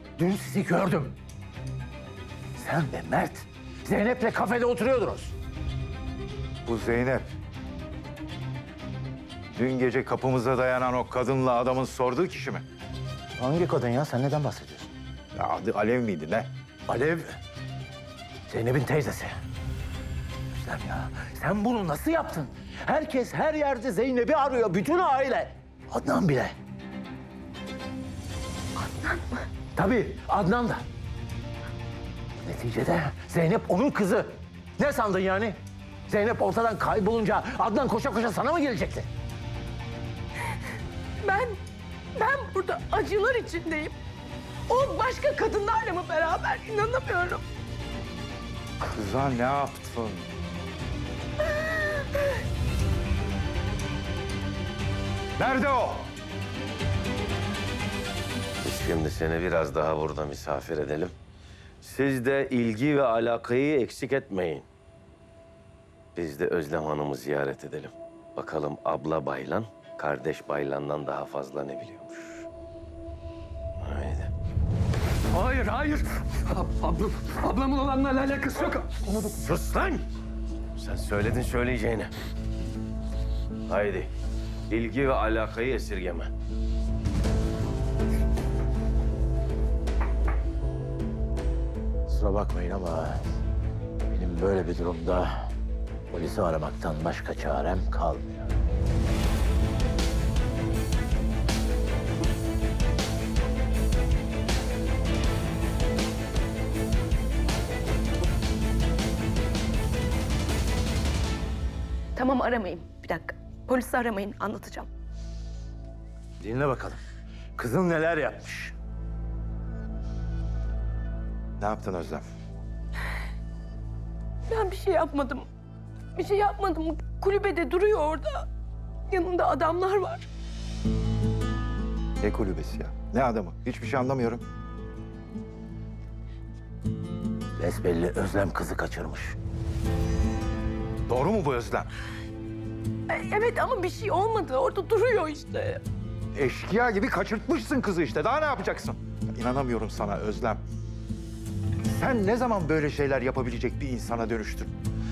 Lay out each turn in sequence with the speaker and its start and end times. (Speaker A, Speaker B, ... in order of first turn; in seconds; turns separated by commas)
Speaker A: 0.2-1.1, Speaker A: 2.5-5.3, Speaker B: 6.6-7.3, Speaker B: 9.5-12.6, Speaker A: 13.4-14.9, Speaker B: 15.3-16.5, Speaker A: 16.9-17.4, Speaker A: 18.5-19.4, Speaker A: 20.6-26.5, Speaker C: 28.8-29.5, Speaker A: 29.8-30.8, Speaker A: 32.4-39.1, Speaker C: 41.2-41.6, Speaker C: 42.1-43.9, Speaker C: 44.7-47.4, Speaker B: 48.8-50.3, Speaker B: 55.4-56.1, Speaker D: 58.6-61.1, Speaker D: 61.8-64.7, Speaker D: 66.1-72.5, Speaker D: 73.8-74.3, Speaker E: 75.3-79.3, Speaker D: 79.1-80.1, Speaker D: 80.8-82.1, Speaker D: 83.7-84.1, Speaker D: 84.7-86.3, Speaker A: 92.1-93.2, Speaker A: 94.1-95.5, Speaker A: 96.1-98.5, Speaker C: 112.1-114.9, Speaker A: 116.4-117.0, Speaker A: 117.6-118.7, Speaker B: 121.6-122.2, Speaker C: 124.5-125.5, Speaker C: 126.2-128.5, Speaker C: 129.1-130.3, Speaker B: 132.2-134.4, Speaker A: 137.6-139.4, Speaker B: 141.1-141.9, Speaker C: 143.1-145.8, Speaker B: 146.3-150.6, Speaker B: 151.8-154.8